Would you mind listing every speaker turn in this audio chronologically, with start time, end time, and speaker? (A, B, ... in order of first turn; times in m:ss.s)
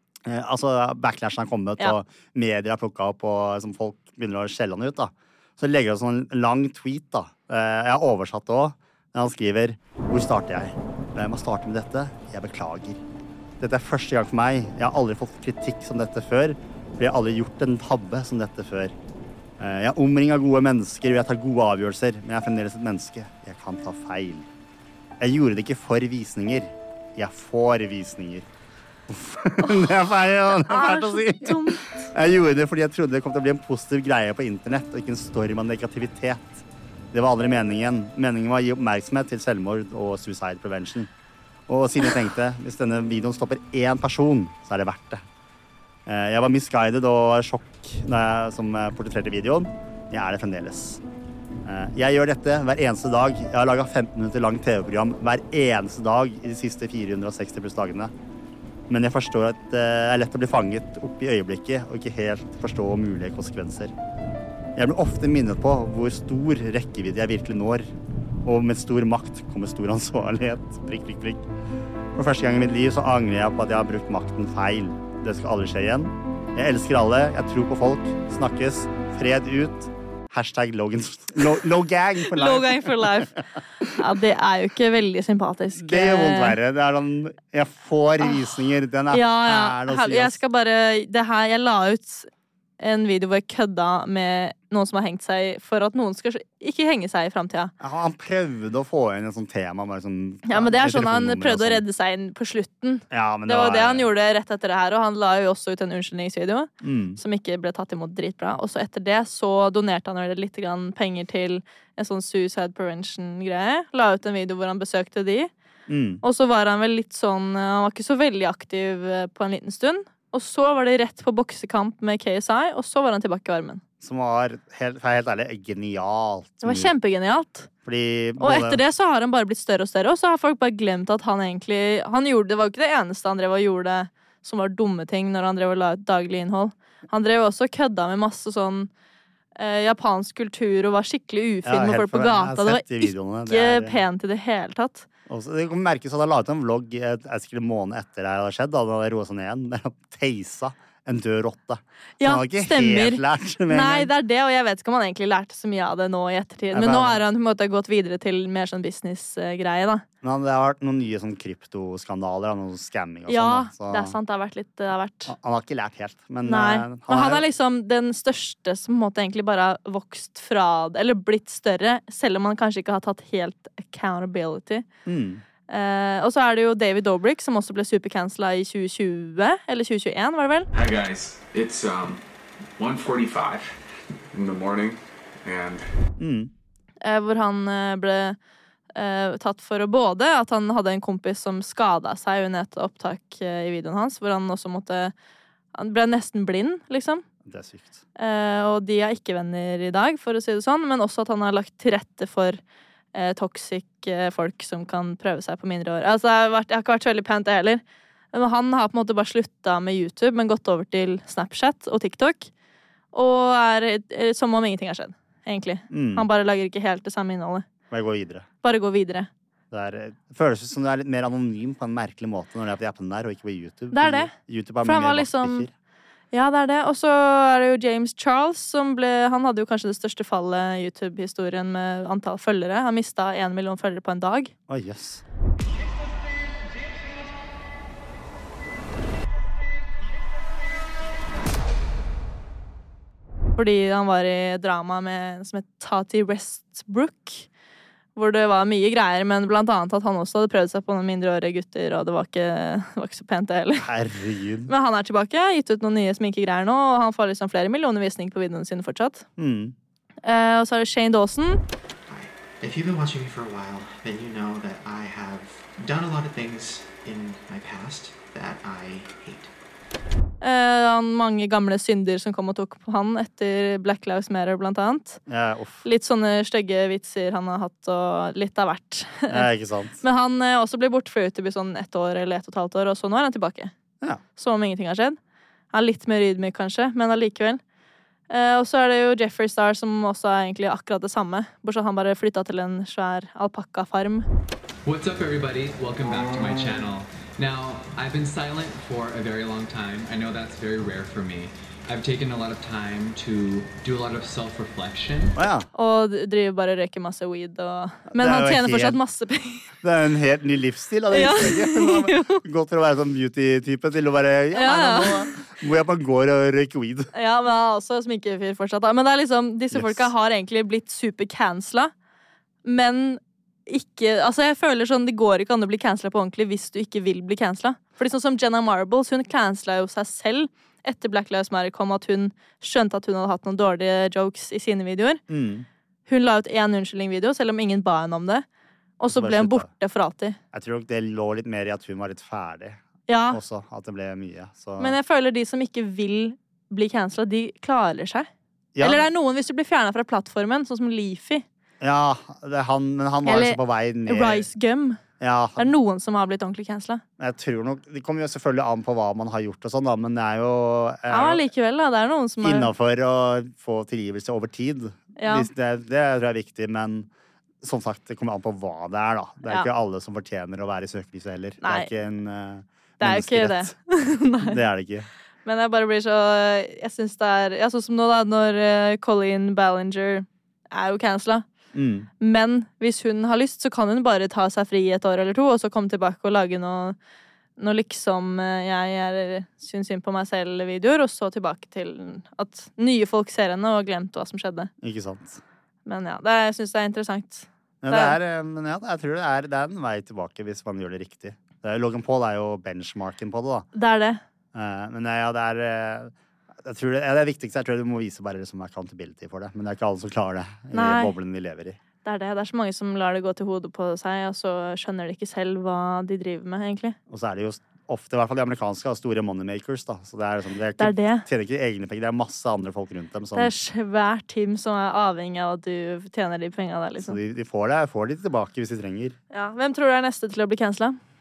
0:00.3-0:13.0 A
0:13.6-0:18.9 A
0:19.6-0:24.5 A
0:25.2-0:28.5 A
0:29.1-0:41.1 A
0:30.5-0:32.1 B
0:41.7-0:45.2 A
0:46.1-0:51.0 A
0:51.6-0:58.1 A
0:58.9-1:03.9 A
1:04.8-1:07.9 A
1:08.4-1:11.5 A
1:12.1-1:23.4 A
1:22.3-1:23.4 B
1:24.0-1:26.6 B
1:25.8-1:30.4 A
1:28.2-1:28.5 B
1:29.1-1:32.3 B
1:32.8-1:37.7 B
1:37.8-1:41.8 A
1:40.5-1:55.5 B
1:43.1-1:44.1 A
1:46.8-1:47.2 A
1:55.9-1:56.2 A
1:56.2-2:03.8 B
2:04.0-2:06.9 A
2:06.6-2:07.7 B
2:07.8-2:08.8 A
2:08.4-2:18.9 B
2:19.6-2:25.1 B
2:21.6-2:24.0 A
2:25.3-2:34.1 A
2:32.2-2:40.0 B
2:36.7-2:37.2 A
2:40.2-2:44.2 A
2:43.3-2:45.3 B
2:45.3-2:47.4 A
2:46.4-2:54.9 B
2:55.1-2:55.4 A
2:55.7-3:00.7 B
3:00.7-3:02.2 C
3:02.8-3:03.7 C
3:04.3-3:05.8 C
3:06.2-3:06.5 A
3:07.0-3:08.4 B
3:09.0-3:15.1 B
3:15.7-3:17.2 B
3:17.4-3:18.0 A
3:18.2-3:22.6 B
3:23.1-3:27.8 B
3:28.3-3:32.5 B
3:33.1-3:37.7 B
3:35.9-3:36.3 A
3:37.9-3:38.5 A
3:38.6-3:39.3 B
3:39.7-3:45.7 A
3:43.9-3:45.7 B
3:46.3-3:54.5 B
3:54.7-3:55.2 A
4:03.6-4:07.5 B
4:08.2-4:13.9 B
4:13.8-4:14.7 A
4:14.7-4:19.3 B
4:19.4-4:19.7 A
4:20.2-4:21.6 B
4:22.1-4:29.5 D
4:30.4-4:35.2 B
4:35.3-4:35.8 A
4:35.8-4:39.5 B
4:39.3-4:40.0 A
4:40.0-4:43.7 B
4:44.4-4:45.2 B
4:45.7-4:47.6 B
4:48.3-4:54.2 B
4:54.8-5:05.4 E
5:05.4-5:05.7 A
5:05.8-5:09.7 B
5:08.1-5:09.0 A
5:09.8-5:17.1 A
5:11.1-5:12.4 B
5:14.5-5:15.3 B
5:17.1-5:21.9 B
5:19.7-5:20.1 A
5:22.6-5:35.2 B
5:35.3-5:35.7 A
5:36.1-5:38.4 B
5:39.0-5:40.4 B
5:39.1-5:39.7 A
5:40.5-5:45.0 A
5:43.1-5:43.4 B
5:44.8-5:48.3 B
5:48.7-5:49.0 A
5:48.8-5:51.4 B
5:51.8-5:54.5 A
5:53.2-5:55.0 B
5:55.2-5:55.7 A
5:55.6-5:57.0 B
5:57.2-6:01.5 A
6:01.1-6:02.7 B
6:02.4-6:07.1 A
6:05.2-6:05.5 B
6:07.6-6:13.7 A
6:11.6-6:11.9 B
6:13.0-6:14.6 B
6:14.4-6:15.1 A
6:15.4-6:21.4 B
6:21.7-6:22.1 A
6:22.2-6:27.0 B
6:27.6-6:34.7 B
6:34.8-6:35.4 A
6:35.9-6:38.2 B
6:37.8-6:43.7 A
6:43.8-6:44.2 B
6:44.5-6:51.8 A
6:50.7-6:51.1 B
6:52.0-6:57.0 B
6:57.1-7:03.5 A
7:00.8-7:01.3 B
7:03.4-7:07.2 B
7:07.0-7:09.2 A
7:09.3-7:11.0 B